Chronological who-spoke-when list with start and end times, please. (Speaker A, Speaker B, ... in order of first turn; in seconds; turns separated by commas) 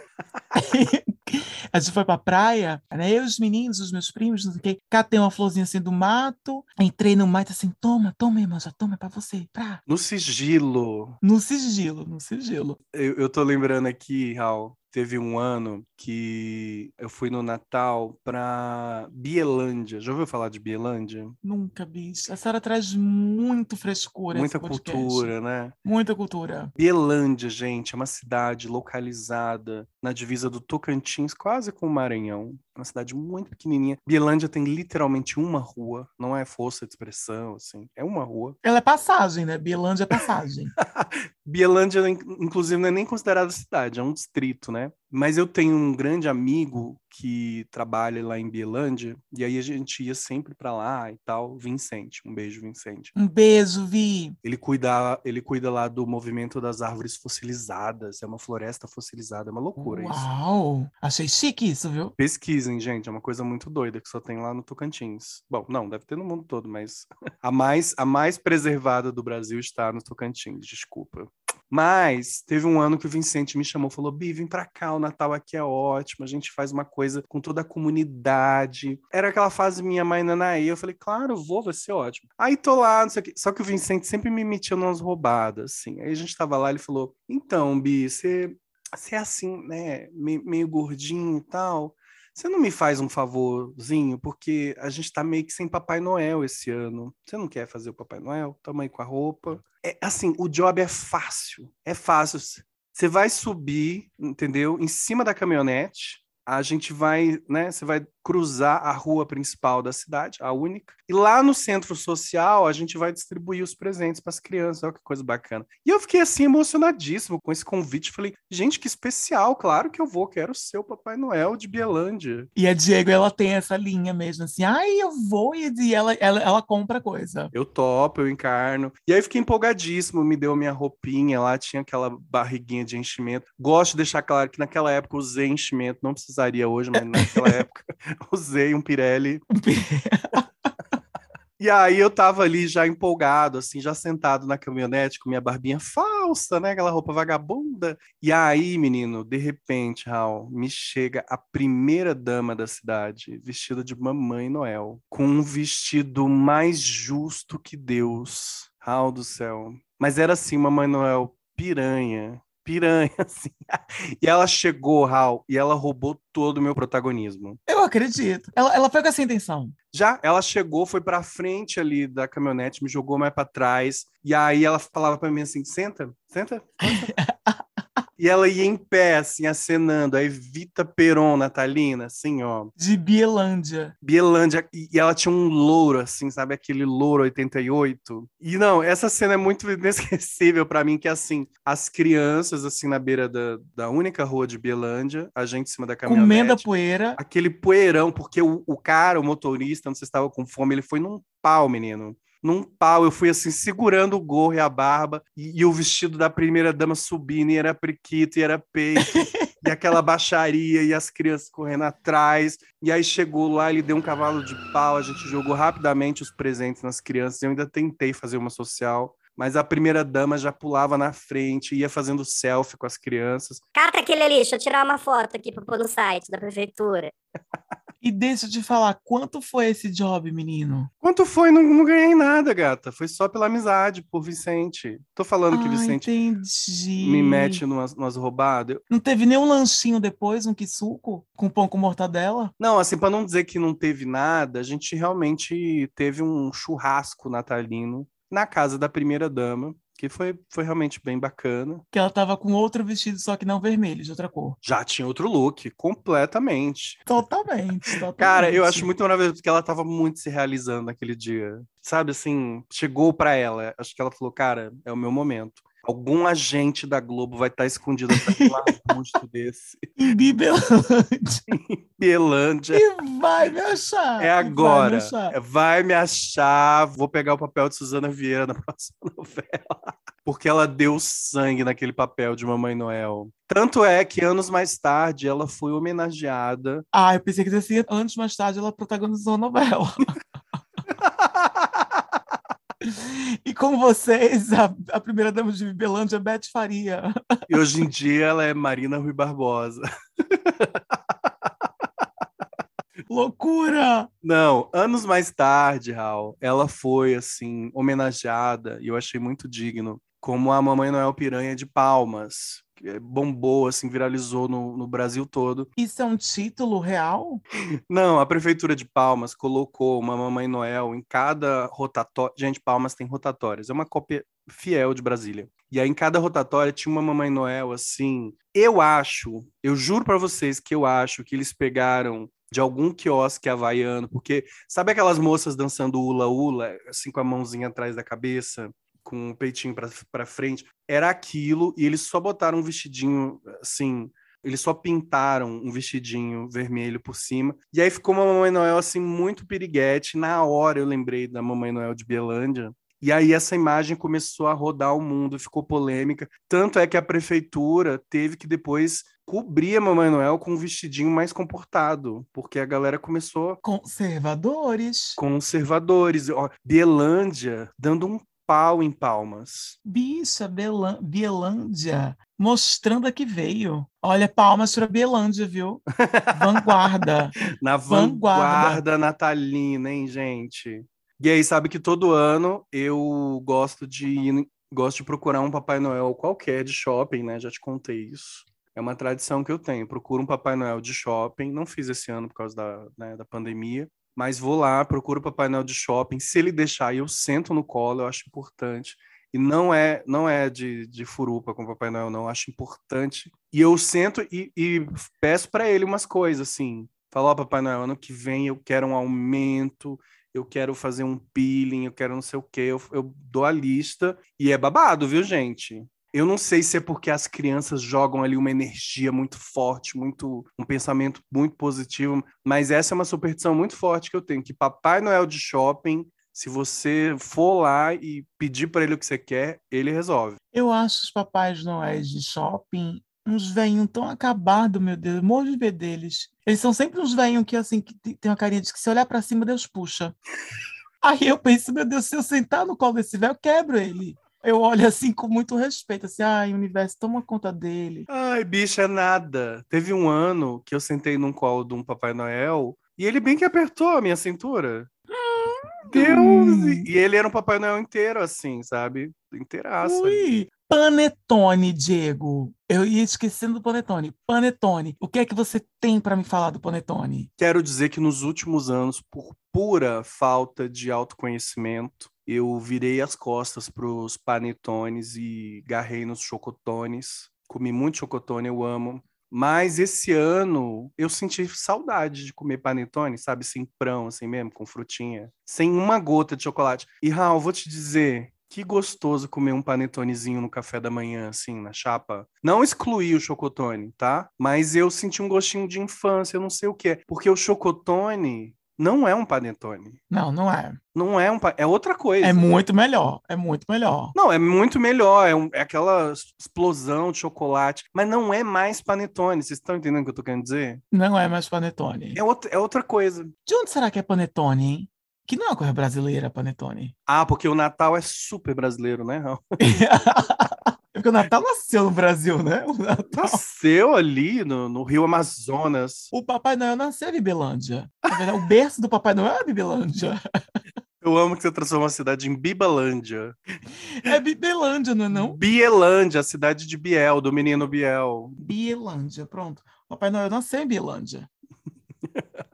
Speaker A: 0.5-9.8, Speaker B: 9.9-11.2, Speaker A: 11.2-12.8, Speaker B: 12.9-21.3, Speaker A: 21.4-25.3, Speaker B: 24.3-25.8, Speaker A: 25.8-26.7, Speaker B: 26.8-38.6, Speaker A: 38.6-40.7, Speaker B: 40.8-53.1, Speaker A: 53.1-54.4, Speaker B: 54.4-60.3, Speaker A: 59.8-62.1, Speaker B: 62.2-122.5, Speaker A: 122.5-127.5, Speaker B: 127.5-139.4, Speaker A: 137.0-137.6, Speaker A: 139.5-140.4, Speaker B: 141.6-167.6, Speaker A: 167.7-169.7, Speaker B: 169.9-177.1, Speaker A: 176.8-177.6, Speaker B: 178.2-182.7, Speaker A: 182.8-183.9, Speaker B: 184.0-196.7, Speaker A: 196.0-197.2, Speaker B: 197.2-223.6, Speaker A: 209.1-209.5, Speaker C: 223.7-227.1, Speaker A: 228.0-230.9, Speaker B: 231.0-236.1, Speaker A: 235.5-237.6, Speaker B: 237.0-238.8, Speaker A: 238.9-242.5, Speaker B: 242.6-251.8, Speaker A: 251.9-254.6, Speaker B: 254.6-257.2, Speaker A: 257.1-258.9, Speaker B: 258.2-269.9, Speaker A: 268.1-268.8, Speaker A: 270.0-271.4, Speaker B: 271.5-272.9, Speaker A: 272.7-275.3, Speaker B: 274.2-286.8, Speaker A: 286.9-290.1, Speaker B: 291.0-291.6, Speaker A: 292.8-297.1, Speaker B: 297.5-300.8, Speaker A: 303.1-304.1, Speaker B: 304.2-315.7, Speaker A: 315.8-317.4, Speaker B: 317.9-363.6, Speaker A: 363.6-365.2, Speaker B: 365.2-369.8, Speaker A: 369.8-377.4, Speaker B: 376.0-376.9, Speaker B: 377.5-430.4, Speaker A: 377.9-378.8, Speaker A: 430.5-440.1, Speaker A: 441.0-448.1, Speaker B: 448.1-454.9, Speaker A: 455.2-456.9, Speaker B: 455.9-460.2, Speaker A: 459.8-467.3, Speaker B: 467.4-500.0, Speaker A: 500.1-500.8, Speaker B: 500.9-502.4, Speaker A: 502.2-504.1, Speaker B: 504.1-510.8, Speaker A: 510.9-512.2, Speaker B: 512.1-513.3, Speaker A: 513.5-516.9, Speaker B: 517.1-519.6, Speaker A: 519.6-523.4, Speaker B: 523.1-526.1, Speaker A: 526.1-530.2, Speaker B: 531.0-533.4, Speaker A: 533.9-535.4, Speaker B: 535.1-538.4, Speaker A: 538.4-541.3